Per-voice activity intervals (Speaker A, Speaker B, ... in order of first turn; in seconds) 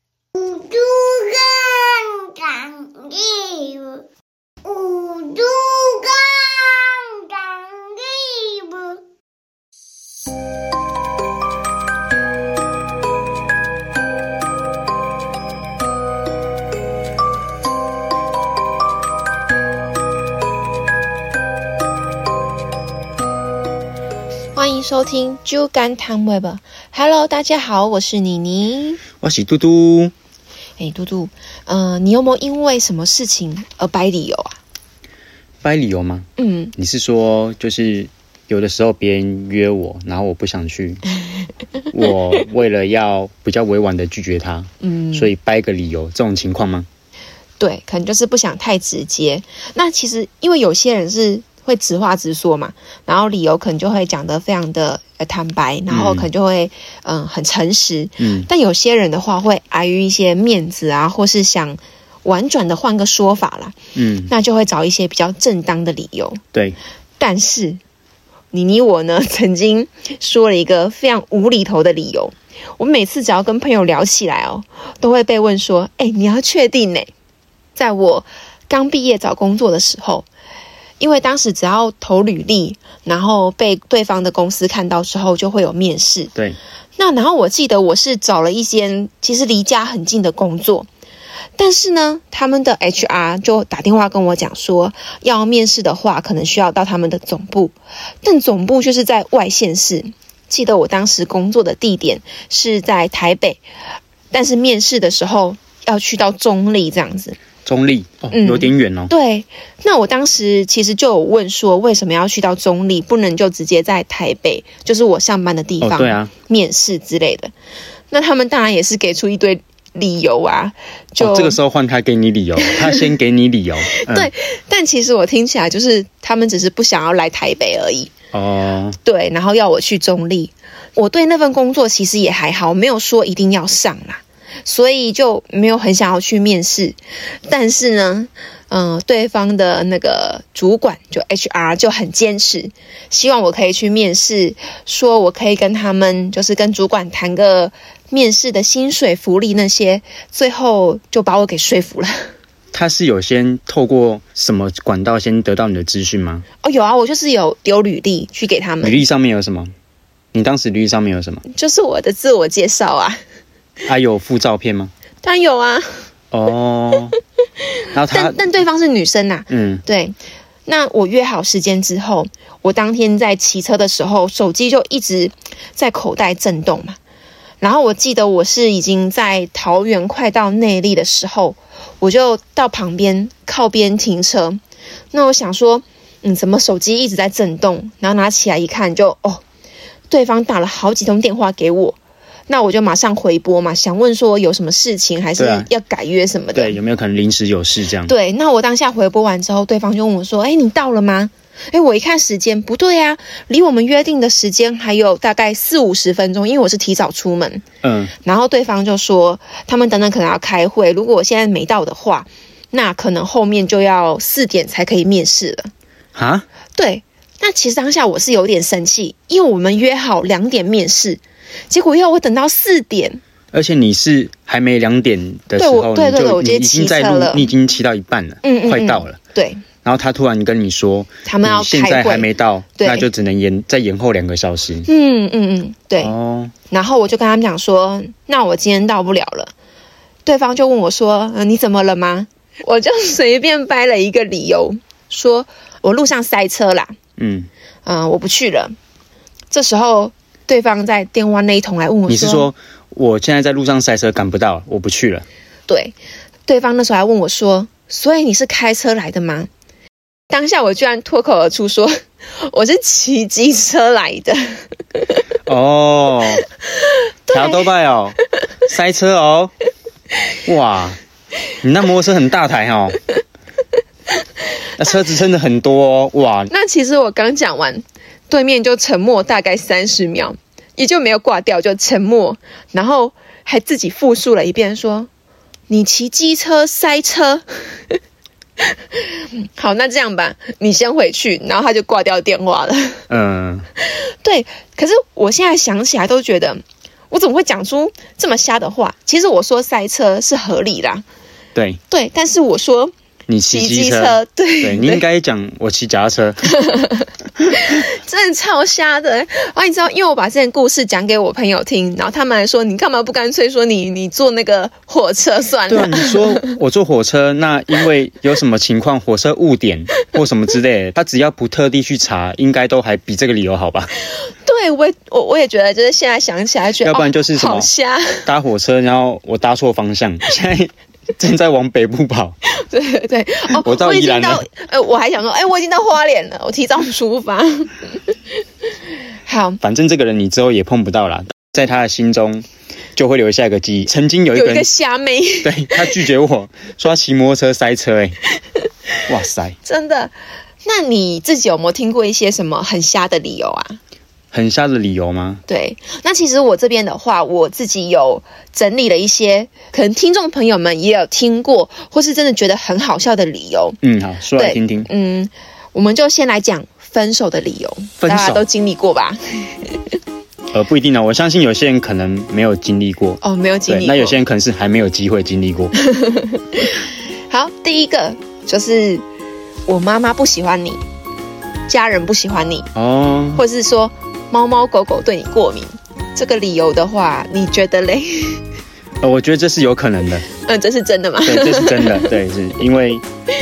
Speaker A: 0.3-4.0, 4.6-9.0
Speaker B: 24.6-29.0, 30.8-34.6, 36.4-36.7, 44.8-45.3, 47.6-63.8, 64.3-66.4, 67.2-67.8, 68.5-77.1, 77.8-80.3, 81.0-86.3, 87.0-90.9, 91.6-103.6, 104.3-107.4, 108.3-117.5, 118.1-121.6, 122.6-123.0, 124.0-128.1, 129.1-152.3, 156.6-159.0, 161.5-163.2, 165.2-165.9, 168.1-177.0, 177.6-184.6, 185.1-189.4, 190.1-192.0, 192.5-196.8, 198.1-207.7, 208.2-215.7, 216.8-223.2, 225.6-227.5, 228.4-229.6, 231.3-233.1, 234.8-236.1, 236.7-239.5, 240.2-246.9, 247.8-248.8, 249.5-252.5, 255.7-255.9, 256.5-259.5, 260.3-264.4, 267.3-267.6, 276.5-285.1, 285.7-287.6, 288.6-293.0, 294.2-301.0, 301.9-302.9, 303.5-305.0, 306.5-316.5, 324.4-328.3, 332.5-337.9, 339.3-339.6, 344.3-346.0, 349.6-350.1, 350.6-353.8, 355.5-363.8, 364.4-369.8, 373.2-374.2, 375.8-379.0, 379.7-380.8, 381.7-382.7, 383.3-388.4, 390.4-392.2
Speaker C: 29.2-30.1, 35.6-41.0, 41.9-46.9, 55.9-56.3, 58.2-58.5, 64.0-64.3, 107.7-109.1, 115.8-116.3, 121.2-124.3, 128.3-129.0, 152.7-156.5, 158.8-159.7, 160.3-161.4, 163.9-164.9, 166.3-167.2, 167.9-168.4, 169.5-169.8, 195.4-195.7, 196.6-198.1, 207.8-208.1, 216.2-216.5, 223.5-229.2, 229.8-234.9, 236.0-236.5, 247.2-247.5, 252.1-255.3, 265.5-266.4, 267.3-269.5, 270.5-271.0, 271.6-273.0, 274.8-276.5, 293.1-293.7, 301.6-301.8, 303.3-306.5, 315.7-323.9, 326.8-327.7, 328.2-332.4, 333.5-334.4, 339.6-344.7, 345.4-348.2, 349.1-349.6, 354.3-355.4, 363.8-364.9, 368.0-368.4, 370.5-375.7, 382.8-383.4, 389.0-390.3, 391.2-393.1